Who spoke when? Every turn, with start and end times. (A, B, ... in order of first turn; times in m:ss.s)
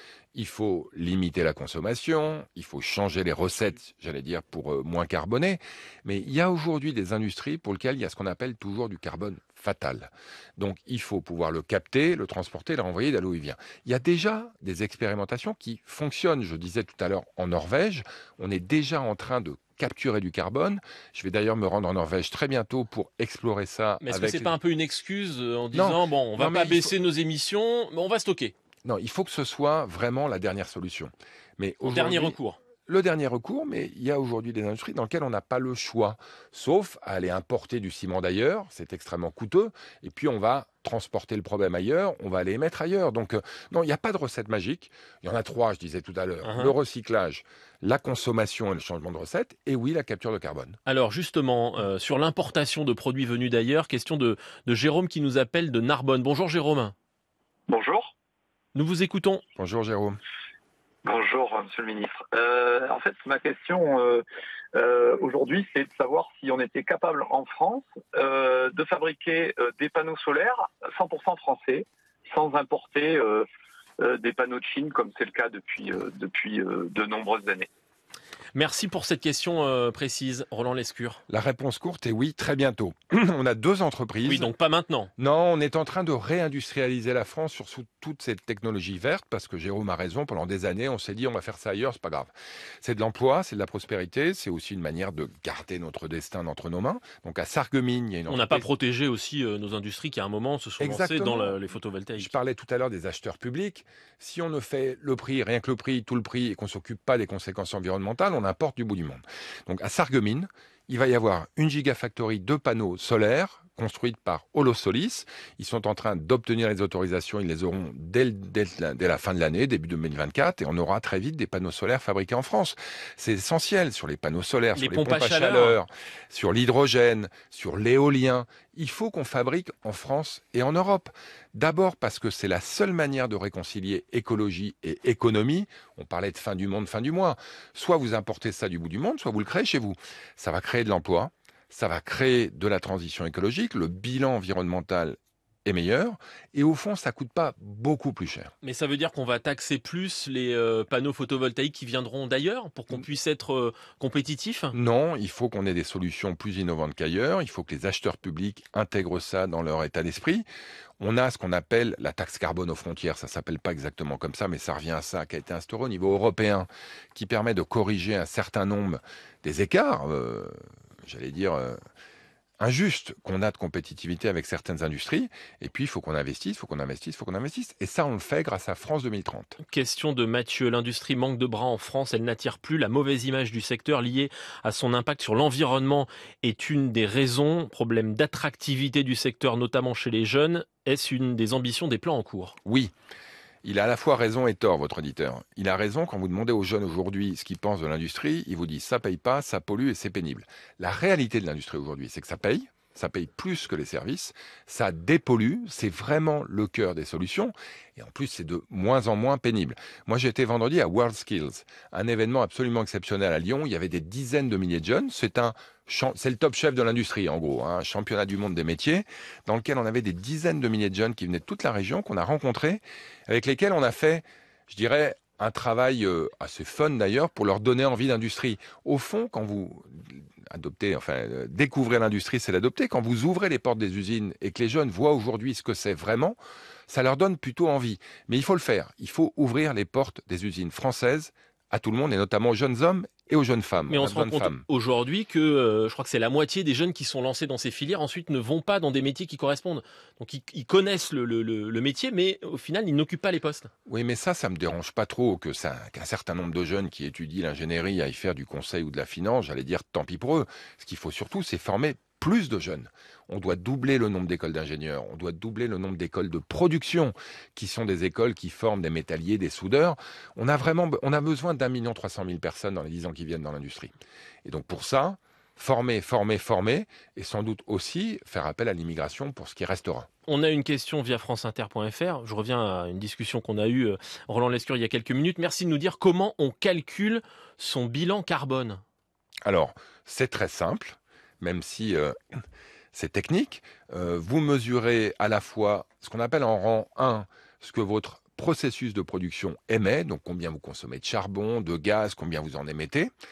0:00.3-0:24.5 A
0:24.0-0:28.5 B
0:25.7-0:26.9 A
0:28.8-0:50.8 A
0:31.8-0:32.6 B
0:46.4-0:46.7 B
0:50.8-0:56.9 B
0:57.7-0:58.1 C
0:58.7-0:59.4 B
0:59.6-1:00.2 A
1:01.0-1:04.2 C
1:04.7-1:13.4 C
1:14.0-1:17.7 C
1:18.5-1:21.2 B
1:21.3-1:24.5 A
1:24.2-1:25.1 B
1:25.2-1:32.3 A
1:32.8-1:38.7 A
1:38.3-1:42.3 B
1:40.8-1:41.6 A
1:42.2-2:28.5 A
2:04.7-2:05.8 B
2:28.6-2:34.7 B
2:34.7-2:40.4 A
2:41.0-2:51.8 A
2:52.6-2:59.6 A
2:59.6-3:12.6 B
3:12.6-3:12.9 A
3:13.6-3:56.4 A
3:56.9-4:04.6 A
4:03.9-4:13.7 B
4:13.9-4:33.9 A
4:34.4-4:40.1 A
4:40.2-4:48.8 B
4:49.4-4:52.2 A
4:52.9-5:03.1 A